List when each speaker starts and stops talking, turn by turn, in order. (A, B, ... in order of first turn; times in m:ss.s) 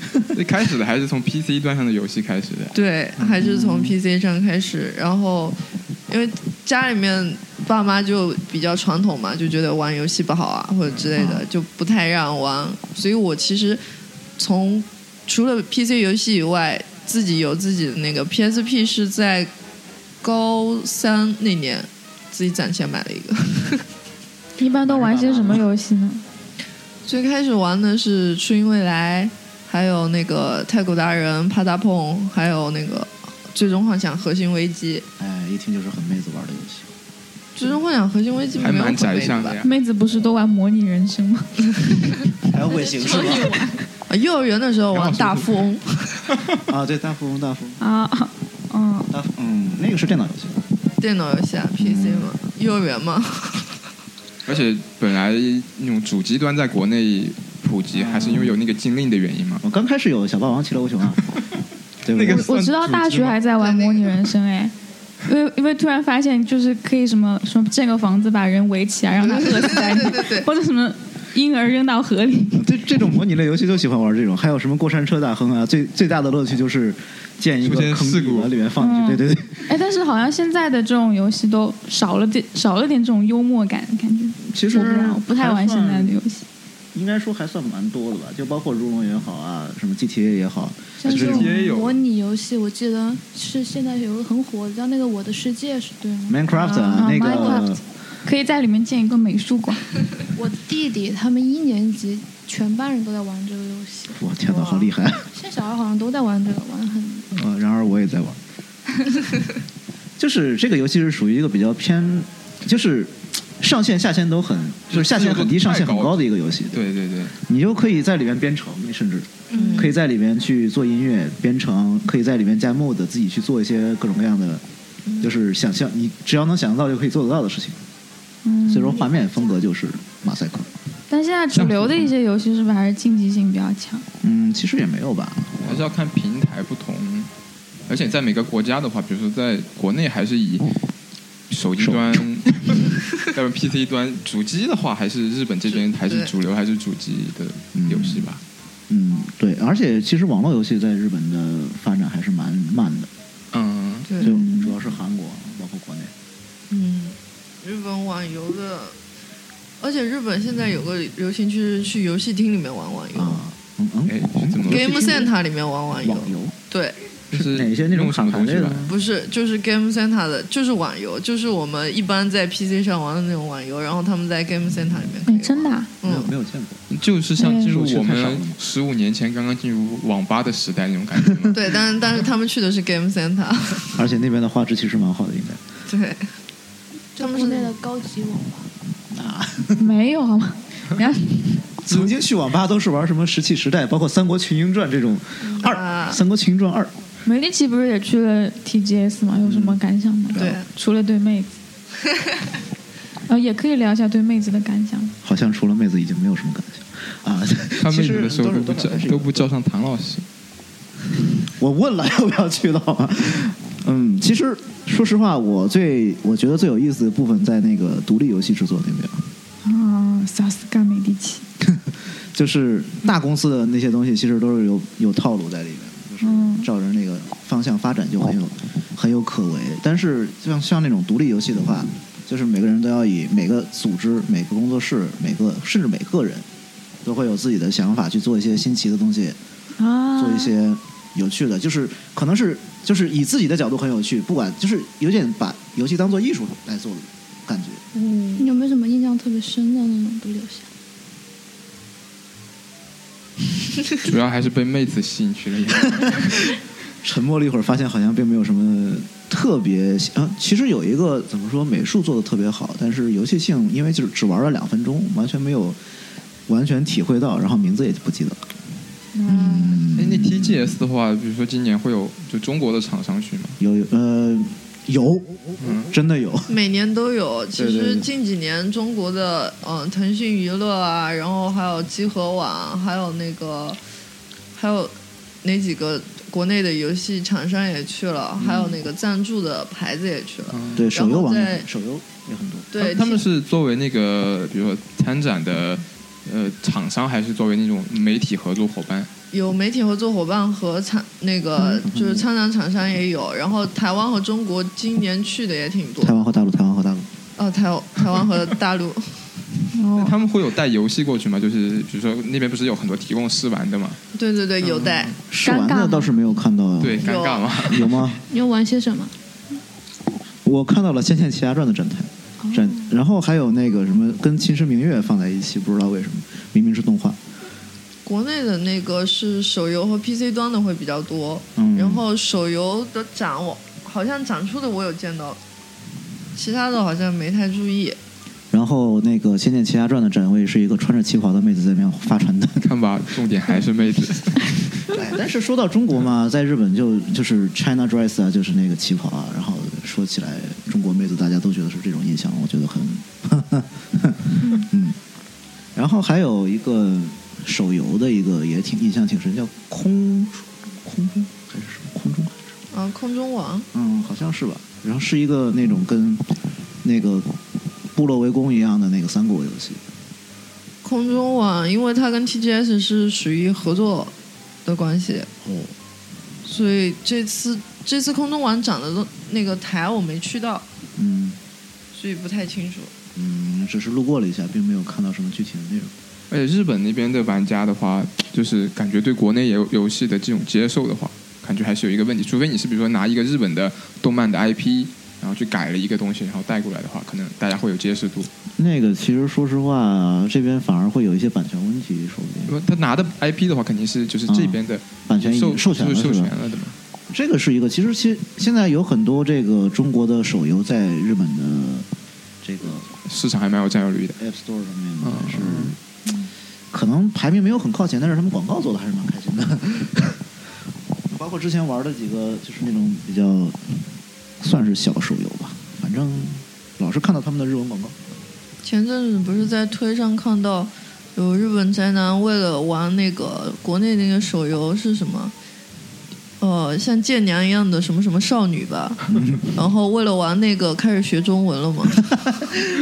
0:00.3-0:02.7 A
0:02.7-0:13.8 B
0:03.2-0:04.0 C
0:14.4-0:19.5 B
0:20.2-0:23.8 B
0:24.6-0:26.2 D
0:24.8-0:25.6 C
0:27.0-0:35.0 B
0:35.2-0:36.9 C
0:37.6-0:39.6 B
0:38.6-0:39.7 A
0:39.6-0:41.7 D
0:42.5-0:43.6 C
0:42.5-0:43.8 D
0:44.1-0:46.2 B
0:44.9-0:45.5 A
0:46.7-0:47.8 C
0:47.8-0:49.1 D
0:49.1-0:50.6 C
0:51.0-0:53.7 B
0:51.8-0:52.3 C
0:54.4-0:59.6 A
0:57.9-0:58.6 C
0:59.6-1:01.3 C
1:02.0-1:02.5 C
1:02.1-1:03.4 A
1:02.2-1:04.7 D
1:03.6-1:04.0 B
1:05.2-1:12.6 D
1:09.2-1:10.5 B
1:12.5-1:19.7 C
1:17.6-1:18.5 A
1:18.8-1:26.4 D
1:24.4-1:26.2 C
1:26.9-1:31.5 C
1:31.0-1:37.7 E
1:31.0-1:32.0 A
1:36.3-1:37.8 C
1:36.5-1:39.8 D
1:40.4-1:44.2 E
1:44.1-1:45.3 C
1:44.5-1:44.9 B
1:45.3-1:47.3 E
1:47.3-1:48.4 C
1:50.2-1:56.8 C
1:54.9-1:57.4 A
1:57.3-2:04.6 C
1:59.5-1:59.9 E
1:59.6-1:59.9 B
2:05.1-2:05.3 B
2:05.2-2:07.8 C
2:08.4-2:09.1 D
2:08.7-2:10.7 C
2:11.1-2:14.0 D
2:11.5-2:12.1 A
2:14.2-2:15.8 C
2:15.6-2:17.3 A
2:17.9-2:20.8 A
2:21.5-2:28.4 A
2:21.8-2:22.2 C
2:25.7-2:26.3 B
2:27.7-2:28.3 C
2:28.9-2:33.1 C
2:33.5-2:34.1 A
2:34.1-2:34.3 B
2:34.2-2:36.1 C
2:34.2-2:34.7 D
2:36.7-2:39.0 B
2:39.8-2:43.4 B
2:43.1-2:45.3 C
2:44.1-2:45.0 A
2:44.7-2:47.0 B
2:46.0-2:46.5 C
2:47.3-2:48.9 C
2:47.3-2:48.9 A
2:48.9-2:56.3 B
2:55.2-2:55.9 D
2:56.0-2:56.9 C
2:56.9-3:01.6 A
2:57.4-2:57.7 D
2:57.4-2:58.6 C
3:01.5-3:04.0 B
3:03.9-3:05.6 C
3:05.9-3:06.3 B
3:07.1-3:08.7 E
3:07.2-3:07.7 B
3:09.1-3:09.9 C
3:09.8-3:11.6 D
3:11.8-3:16.9 C
3:15.4-3:15.7 E
3:15.6-3:16.2 B
3:17.2-3:21.5 D
3:19.4-3:19.8 C
3:20.3-3:20.6 C
3:20.3-3:20.6 B
3:23.3-3:25.1 D
3:25.2-3:29.5 C
3:27.8-3:30.2 A
3:31.5-3:39.3 C
3:39.6-3:41.4 D
3:41.6-3:56.4 C
3:46.2-3:46.7 D
3:57.0-3:59.4 C
3:59.8-4:00.5 D
4:00.2-4:07.8 C
4:08.0-4:08.4 D
4:08.3-4:10.7 E
4:14.0-4:16.4 A
4:17.0-4:25.8 C
4:26.5-4:28.5 C
4:29.1-4:29.8 D
4:29.2-4:30.7 C
4:29.9-4:33.6 A
4:33.6-4:36.5 C
4:35.6-4:35.9 A
4:36.5-4:43.8 B
4:37.6-4:38.1 C
4:44.5-4:51.6 B
4:48.4-4:48.8 C
4:50.5-4:50.9 A
4:50.7-4:52.9 C
4:52.7-4:53.2 B
4:52.8-4:59.1 A
4:59.3-5:06.1 B
5:01.6-5:02.2 C
5:06.0-5:07.1 C
5:07.4-5:09.3 B
5:09.7-5:10.1 D
5:10.0-5:14.0 A
5:14.1-5:15.1 B
5:14.6-5:15.2 A
5:15.3-5:18.2 C
5:15.4-5:16.1 D
5:16.8-5:18.1 A
5:17.0-5:17.6 B
5:18.3-5:19.1 E
5:20.4-5:27.2 C
5:28.0-5:35.4 B
5:31.6-5:32.0 C
5:36.3-5:38.0 B
5:38.5-5:42.7 C
5:42.6-5:44.7 A
5:44.9-5:55.0 C
5:55.8-6:02.5 C
6:02.7-6:03.7 B
6:03.7-6:07.3 C
6:07.9-6:09.8 C
6:10.8-6:14.1 B
6:14.6-6:15.3 B
6:15.4-6:15.7 C
6:16.4-6:20.6 B
6:21.0-6:21.4 C
6:21.9-6:22.9 B
6:23.1-6:25.9 C
6:26.3-6:38.3 A
6:38.6-6:42.5 C
6:42.5-6:46.8 A
6:44.3-6:46.3 C
6:47.1-6:51.9 C
6:52.4-6:52.9 C
6:53.0-6:54.2 A
6:54.2-6:55.8 C
6:55.0-6:55.7 A
6:56.7-7:00.2 C
7:01.1-7:03.8 C
7:04.4-7:08.0 C
7:08.6-7:15.3 B
7:16.4-7:22.5 B
7:19.1-7:19.6 C